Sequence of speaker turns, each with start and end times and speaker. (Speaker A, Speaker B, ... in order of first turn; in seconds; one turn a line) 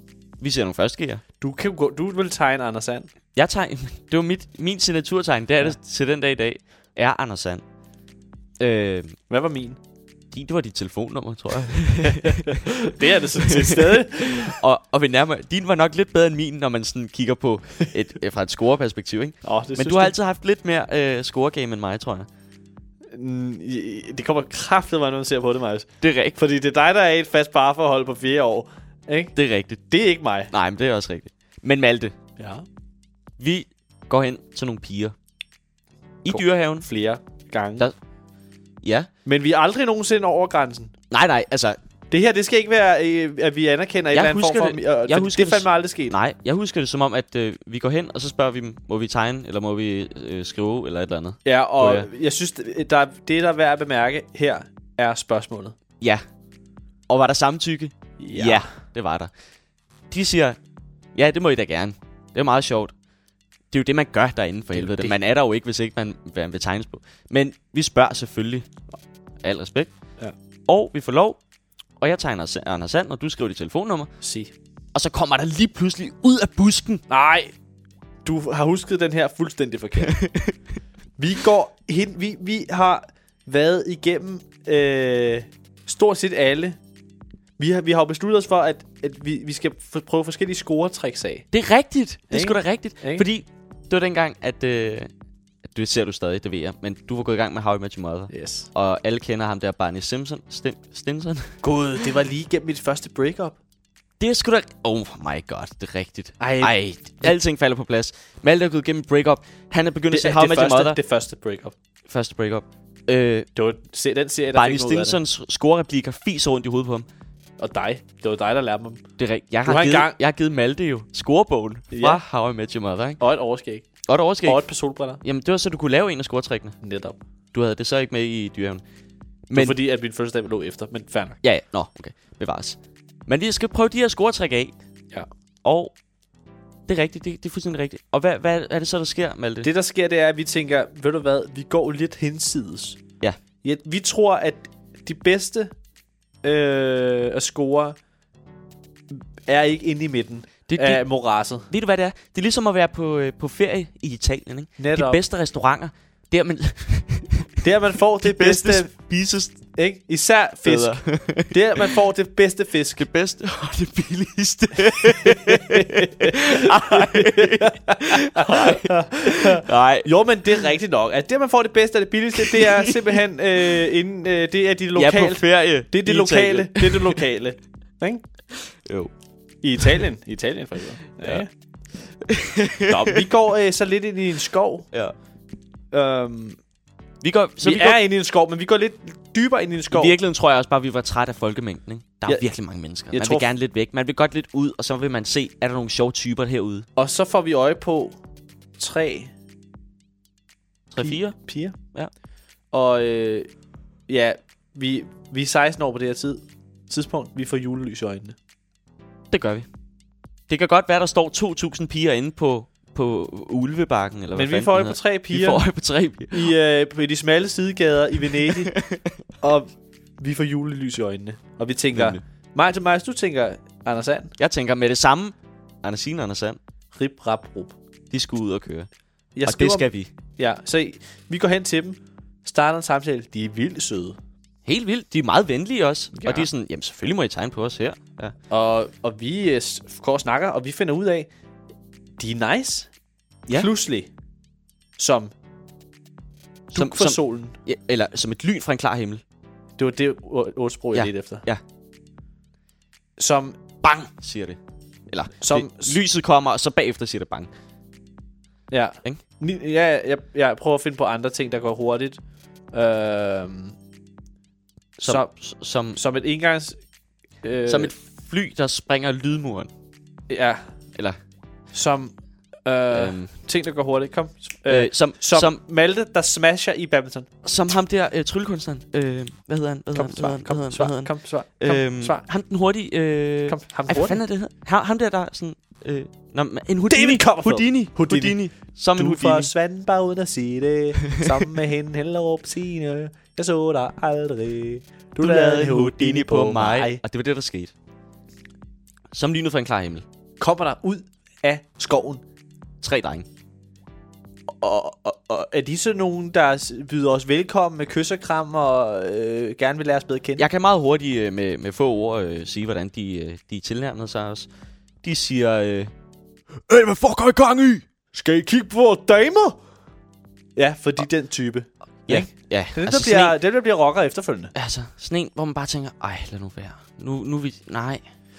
Speaker A: 0.4-1.2
Speaker B: 1.4-3.1
Speaker A: 3.4-7.6
Speaker A: 8.6-9.2
Speaker B: 9.3-9.8
Speaker A: 10.3-12.6
Speaker B: 12.1-14.6
Speaker A: 13.4-22.3
Speaker B: 19.4-20.1
Speaker B: 23.1-29.4
Speaker A: 26.0-26.4
Speaker A: 29.4-29.8
Speaker B: 29.9-30.5
Speaker A: 30.5-32.1
Speaker B: 32.4-32.6
Speaker A: 33.4-35.1
Speaker A: 36.2-36.9
Speaker B: 36.3-37.9
Speaker A: 38.8-39.1
Speaker B: 39.2-40.9
Speaker A: 41.1-41.8
Speaker B: 42.1-46.1
Speaker A: 44.1-52.1
Speaker B: 51.4-55.8
Speaker A: 57.1-59.3
Speaker B: 58.2-58.7
Speaker A: 60.1-60.6
Speaker A: 61.1-62.9
Speaker A: 63.7-68.7
Speaker B: 64.7-65.1
Speaker A: 69.4-69.9
Speaker A: 70.7-71.4
Speaker A: 72.0-74.1
Speaker B: 74.2-74.5
Speaker A: 74.9-77.0
Speaker B: 77.1-77.5
Speaker B: 78.2-80.2
Speaker A: 80.1-80.5
Speaker B: 81.2-86.8
Speaker B: 87.6-91.5
Speaker A: 91.5-95.1
Speaker B: 92.3-93.3
Speaker A: 95.7-101.6
Speaker B: 98.3-98.7
Speaker B: 101.6-103.6
Speaker A: 104.2-111.0
Speaker B: 106.4-107.3
Speaker B: 110.1-111.8
Speaker A: 112.1-113.5
Speaker B: 113.5-115.2
Speaker A: 114.5-117.1
Speaker B: 117.6-119.0
Speaker A: 119.2-123.2
Speaker B: 119.6-120.1
Speaker B: 121.9-122.2
Speaker B: 123.2-123.9
Speaker A: 124.0-124.7
Speaker B: 124.4-125.2
Speaker A: 125.2-126.8
Speaker B: 126.8-127.2
Speaker A: 127.5-128.8
Speaker A: 129.5-129.8
Speaker B: 129.5-131.4
Speaker A: 131.4-134.7
Speaker A: 135.6-135.9
Speaker A: 136.9-139.7
Speaker B: 139.6-143.0
Speaker B: 143.6-145.7
Speaker B: 146.4-148.0
Speaker B: 149.1-151.7
Speaker A: 150.7-151.0
Speaker A: 151.7-157.6
Speaker B: 154.8-155.2
Speaker B: 157.6-158.9
Speaker A: 158.2-159.6
Speaker B: 159.7-163.1
Speaker A: 160.6-161.9
Speaker A: 163.0-170.5
Speaker B: 165.1-178.2
Speaker A: 172.4-173.2
Speaker A: 174.9-177.2
Speaker A: 178.7-179.1
Speaker B: 179.6-181.5
Speaker A: 182.3-183.2
Speaker B: 182.9-184.9
Speaker B: 185.9-186.6
Speaker A: 187.2-188.0
Speaker B: 187.6-190.2
Speaker A: 189.9-196.9
Speaker B: 193.1-193.5
Speaker B: 196.9-198.2
Speaker B: 198.8-199.3
Speaker A: 200.9-201.4
Speaker B: 201.0-201.8
Speaker B: 202.7-203.5
Speaker B: 204.1-208.4
Speaker A: 209.3-209.7
Speaker A: 210.5-216.5
Speaker B: 214.3-215.6
Speaker B: 216.3-218.8
Speaker A: 218.4-219.0
Speaker B: 219.4-224.3
Speaker A: 221.9-222.2
Speaker A: 224.4-226.6
Speaker B: 226.9-227.8
Speaker A: 228.1-228.9
Speaker B: 229.4-234.2
Speaker A: 229.4-230.1
Speaker A: 234.7-238.3
Speaker B: 236.1-236.5
Speaker B: 238.5-241.3
Speaker B: 242.2-242.9
Speaker B: 243.5-244.1
Speaker B: 245.0-245.3
Speaker A: 246.7-249.2
Speaker B: 246.7-247.6
Speaker B: 249.8-251.4
Speaker A: 250.9-251.6
Speaker B: 253.2-253.6
Speaker A: 253.8-254.6
Speaker A: 255.1-257.5
Speaker B: 255.4-256.0
Speaker B: 258.7-262.2
Speaker B: 262.7-263.8
Speaker A: 265.0-266.0
Speaker B: 265.0-265.3
Speaker B: 265.9-266.8
Speaker B: 267.4-267.9
Speaker A: 267.7-269.7
Speaker B: 270.3-270.6
Speaker B: 271.7-272.1
Speaker B: 272.6-277.3
Speaker A: 272.9-273.3
Speaker A: 274.7-275.6
Speaker A: 277.4-289.5
Speaker B: 279.9-282.2
Speaker B: 283.5-284.2
Speaker B: 286.9-297.0
Speaker A: 295.2-297.7
Speaker A: 299.1-300.0
Speaker B: 300.4-302.2
Speaker A: 302.8-303.3
Speaker B: 304.5-310.4
Speaker A: 310.4-314.5
Speaker A: 315.0-315.9
Speaker A: 316.7-317.8
Speaker B: 318.1-319.6
Speaker B: 320.6-324.5
Speaker A: 322.1-323.4
Speaker A: 324.6-328.0